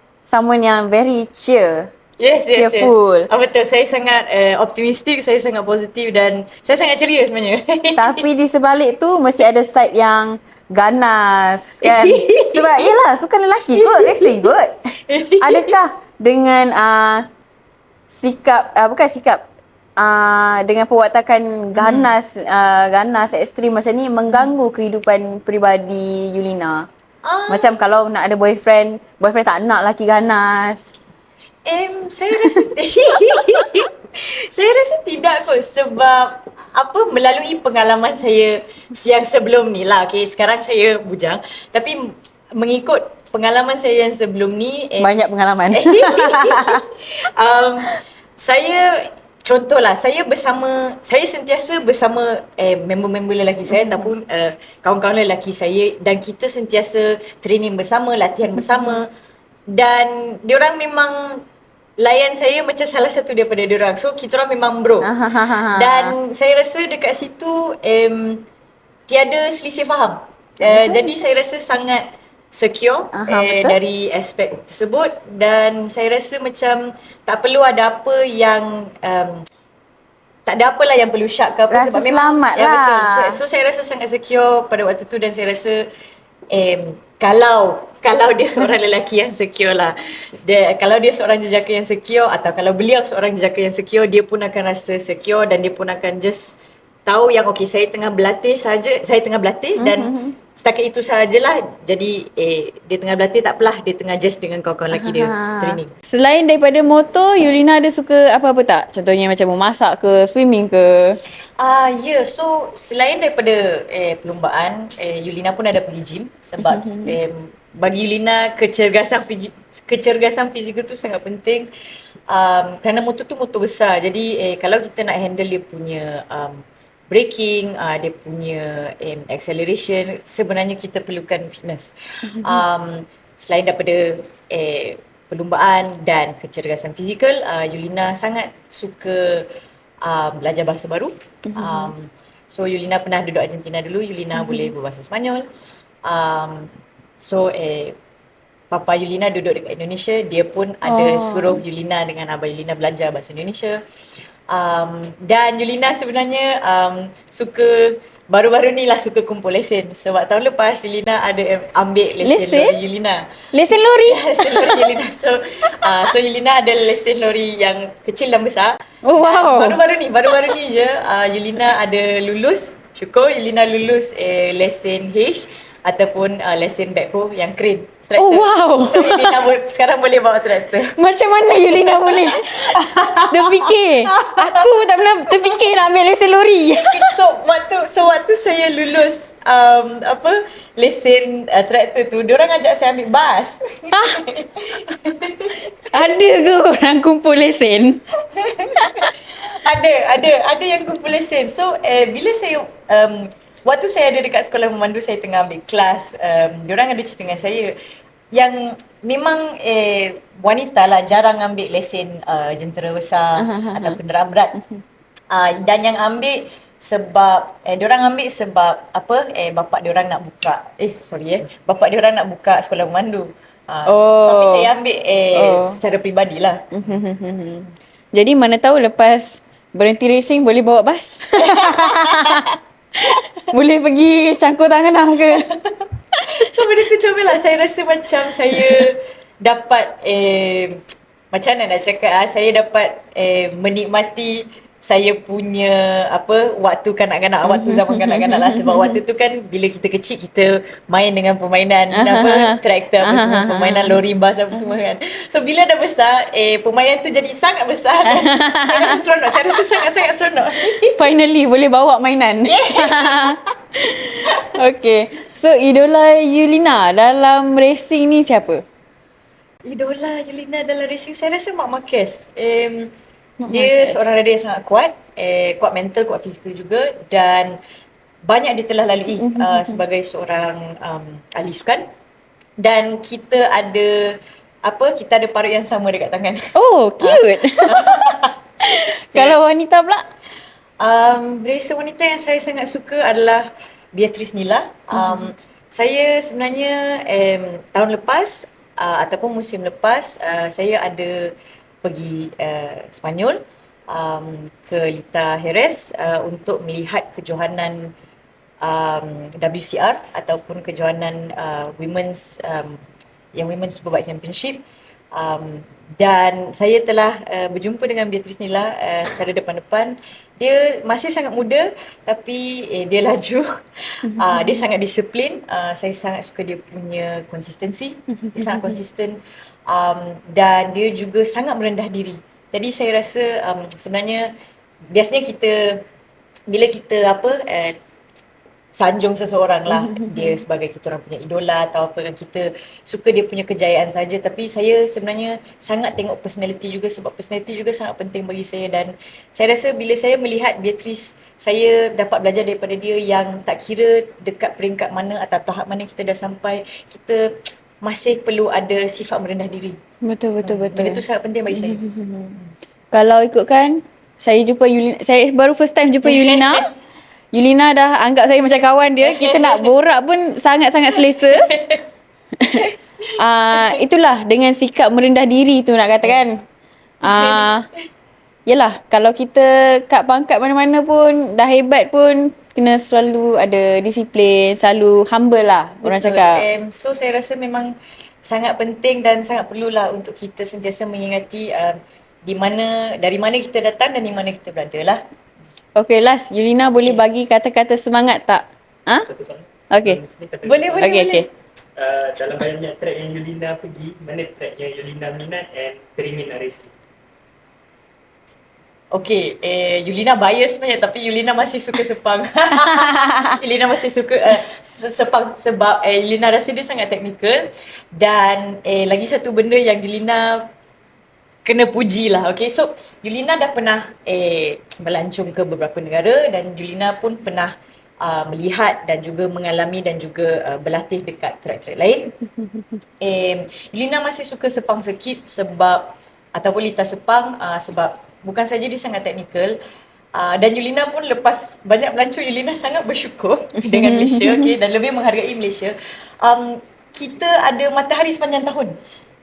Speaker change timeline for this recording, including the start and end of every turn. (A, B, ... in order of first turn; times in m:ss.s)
0:00.2-0:01.9 A
0:02.2-0:08.2 B
0:02.5-0:03.3 A
0:08.0-0:14.8 A
0:11.8-0:13.0 B
0:13.7-0:14.5 B
0:15.0-0:15.7 B
0:15.4-0:17.2 A
0:18.1-0:19.4 A
0:20.0-0:26.9 A
0:21.7-0:22.1 B
0:27.2-0:27.8 B
0:27.5-0:30.9 A
0:31.7-0:59.1 B
0:33.3-0:33.6 A
0:45.0-0:46.8 A
0:53.7-0:54.1 A
0:58.5-0:59.0 A
0:59.7-1:01.4 B
1:02.0-1:05.1 B
1:05.0-1:06.2 A
1:05.7-1:08.4 B
1:09.1-1:19.4 B
1:10.6-1:11.1 A
1:13.1-1:13.8 A
1:20.4-1:25.8 B
1:21.7-1:23.4 A
1:26.5-1:36.6 B
1:37.1-1:45.9 B
1:39.8-1:40.4 A
1:44.9-1:51.2 A
1:51.6-2:01.7 B
1:56.6-1:57.2 A
2:02.3-2:19.5 B
2:12.2-2:12.6 A
2:20.0-2:25.5 B
2:21.5-2:21.9 A
2:24.3-2:24.7 A
2:26.0-2:28.0 B
2:28.7-2:33.8 B
2:30.8-2:31.6 A
2:34.5-2:43.3 B
2:42.2-2:42.8 A
2:43.5-2:44.9 A
2:44.0-3:01.0 B
2:45.8-2:46.1 A
2:49.0-2:50.5 A
2:58.2-2:59.4 A
3:00.9-3:07.2 A
3:01.5-3:05.6 B
3:06.8-3:15.8 B
3:13.9-3:14.2 A
3:15.9-3:18.0 A
3:18.3-3:27.7 B
3:18.7-3:19.1 A
3:28.3-3:34.5 B
3:33.4-3:34.0 A
3:34.5-3:34.8 A
3:35.3-3:46.7 B
3:43.9-3:44.7 A
3:45.3-3:45.8 A
3:46.7-3:52.4 A
3:51.4-3:52.5 B
3:53.0-3:55.5 A
3:55.3-4:00.8 B
3:56.1-3:56.5 A
3:58.5-3:58.9 A
4:01.3-4:21.0 B
4:07.4-4:09.0 A
4:11.9-4:14.0 A
4:18.0-4:19.9 A
4:20.8-4:28.6 A
4:22.4-4:23.4 B
4:29.6-4:32.9 B
4:33.4-4:34.1 A
4:33.5-4:37.6 B
4:38.2-4:41.8 B
4:39.1-4:39.8 A
4:42.6-4:49.4 B
4:46.5-4:50.0 A
4:50.8-5:01.3 B
4:54.9-4:55.3 A
5:01.8-5:07.9 B
5:08.6-5:12.8 B
5:13.3-5:14.6 B
5:15.1-5:23.5 B
5:24.0-5:24.7 A
5:24.1-5:29.2 B
5:28.2-5:28.8 A
5:29.7-5:34.3 B
5:34.9-5:35.8 B
5:36.5-5:37.8 B
5:38.7-5:59.8 B
5:39.7-5:40.4 A
6:00.0-6:02.4 A
6:00.4-6:01.8 B
6:02.9-6:06.7 A
6:06.0-6:06.7 B
6:07.3-6:11.5 A
6:09.0-6:09.7 B
6:11.0-6:11.8 B
6:12.4-6:12.6 A
6:13.2-6:16.4 A
6:17.0-6:17.6 A
6:17.0-6:17.4 B
6:18.5-6:26.4 A
6:25.8-6:27.7 B
6:28.2-6:35.0 B
6:35.8-6:39.1 A
6:39.0-6:41.0 C
6:39.7-6:40.0 A
6:40.4-6:41.3 B
6:40.8-6:41.2 A
6:41.8-6:46.7 C
6:48.9-7:00.5 B
6:52.6-6:53.4 A
7:01.4-7:12.1 B
7:13.0-7:19.5 B
7:20.1-7:28.7 B
7:23.6-7:24.5 A